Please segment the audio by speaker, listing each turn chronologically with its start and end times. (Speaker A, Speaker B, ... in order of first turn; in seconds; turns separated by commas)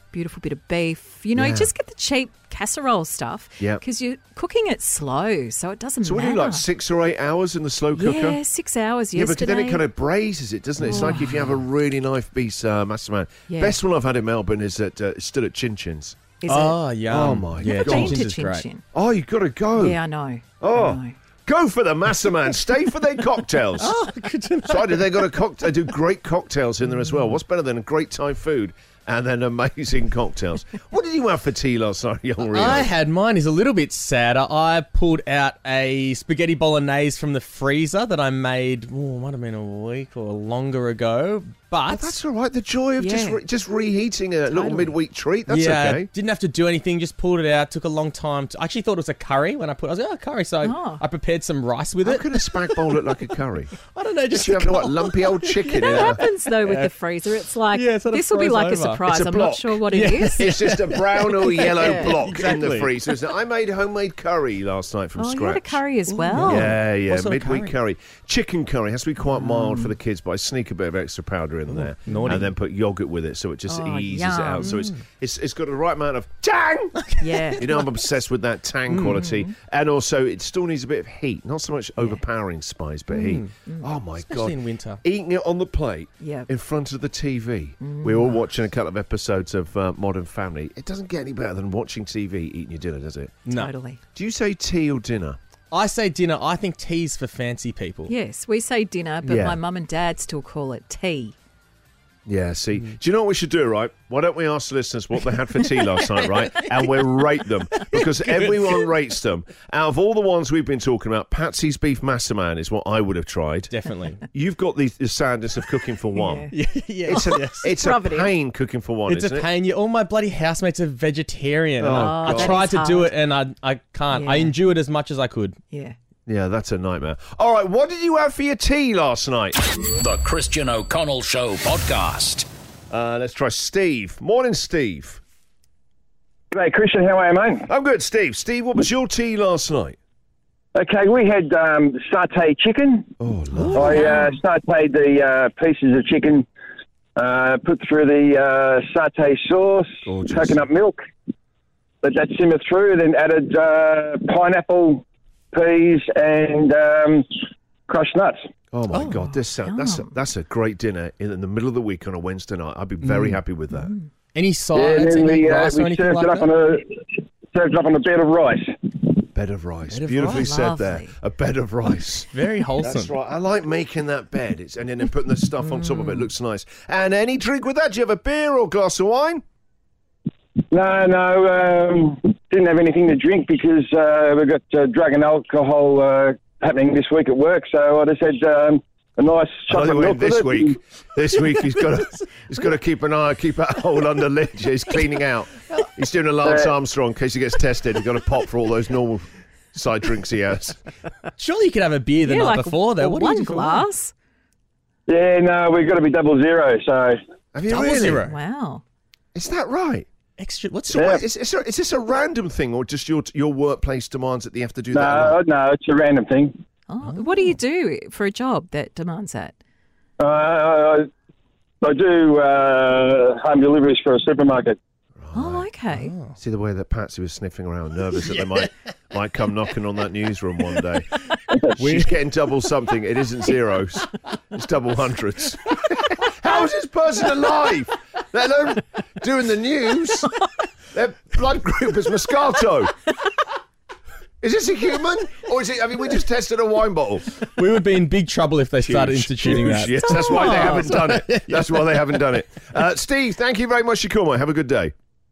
Speaker A: 0.1-6.7, Speaker B: 1.4-1.7, Speaker B: 6.0-8.4, Speaker A: 8.0-9.9, Speaker B: 9.1-16.2, Speaker A: 10.8-11.7, Speaker A: 13.5-13.8, Speaker A: 16.4-16.9, Speaker C: 16.5-18.6, Speaker B: 17.1-18.2, Speaker A: 17.6-18.9, Speaker B: 18.9-20.0, Speaker A: 19.8-21.2, Speaker B: 20.6-23.9, Speaker C: 23.8-25.3, Speaker B: 24.7-32.9, Speaker C: 32.5-42.1, Speaker B: 41.9-46.1, Speaker A: 43.0-43.4, Speaker A: 44.5-45.0, Speaker C: 45.5-52.8, Speaker A: 50.6-51.0, Speaker B: 52.0-53.7, Speaker C: 53.8-56.9, Speaker B: 54.3-56.2, Speaker A: 55.8-60.5, Speaker C: 57.7-59.0, Speaker B: 59.1-65.8, Speaker C: 59.9-63.1, Speaker A: 61.8-62.1, Speaker A: 65.2-66.7, Speaker C: 66.1-67.7, Speaker B: 66.4-77.0, Speaker A: 69.2-69.9, Speaker C: 71.7-72.5, Speaker A: 73.7-74.8, Speaker C: 74.6-74.9, Speaker C: 77.0-77.4, Speaker A: 77.2-77.9, Speaker B: 77.6-93.3, Speaker C: 78.9-79.2, Speaker A: 79.2-79.5, Speaker C: 83.1-83.5, Speaker C: 84.2-85.0, Speaker A: 86.2-86.5, Speaker A: 87.8-88.4, Speaker A: 93.5-94.0, Speaker B: 94.2-95.4, Speaker C: 95.7-98.1, Speaker A: 98.1-101.3, Speaker B: 99.3-99.6, Speaker B: 102.3-113.7, Speaker C: 107.8-108.9, Speaker C: 113.7-114.3, Speaker B: 114.3-116.5, Speaker A: 116.2-116.5, Speaker C: 116.5-117.7, Speaker B: 117.1-119.5, Speaker A: 117.1-118.3, Speaker C: 119.1-125.6, Speaker B: 121.8-122.6, Speaker A: 122.0-123.1, Speaker A: 124.1-124.6, Speaker A: 125.7-126.0, Speaker B: 126.3-129.6, Speaker D: 129.9-132.5, Speaker B: 132.9-135.2, Speaker E: 136.5-137.7, Speaker B: 137.7-140.0, Speaker E: 140.7-143.1, Speaker B: 143.2-143.8, Speaker E: 143.7-146.5, Speaker A: 143.8-144.4, Speaker E: 147.2-151.0, Speaker B: 150.1-150.6, Speaker E: 152.0-158.4, Speaker B: 158.7-163.9, Speaker C: 158.9-159.3, Speaker A: 159.6-160.2, Speaker C: 163.0-163.4, Speaker A: 163.7-164.1, Speaker C: 164.3-166.5, Speaker E: 164.7-169.1, Speaker B: 169.3-179.4, Speaker C: 169.9-170.5, Speaker A: 170.3-171.1, Speaker C: 172.3-173.1, Speaker A: 175.6-176.3, Speaker E: 180.7-190.7, Speaker B: 189.7-200.8, Speaker E: 196.4-196.7, Speaker C: 201.4-203.9, Speaker A: 202.2-204.1, Speaker E: 205.1-207.2, Speaker B: 207.5-208.2, Speaker C: 207.7-208.4, Speaker A: 208.2-208.8, Speaker B: 209.3-210.1, Speaker C: 210.4-211.0, Speaker B: 210.9-215.4, Speaker E: 210.9-211.2, Speaker E: 214.9-216.5, Speaker A: 216.9-219.6, Speaker C: 217.1-217.5, Speaker E: 220.2-221.1, Speaker E: 221.8-224.8, Speaker B: 225.2-225.7, Speaker A: 225.3-226.1, Speaker C: 226.0-226.3, Speaker B: 226.4-231.2, Speaker B: 231.8-240.4, Speaker B: 240.9-242.9, Speaker B: 244.4-247.3, Speaker C: 247.6-252.0, Speaker B: 248.8-254.9, Speaker A: 249.9-250.9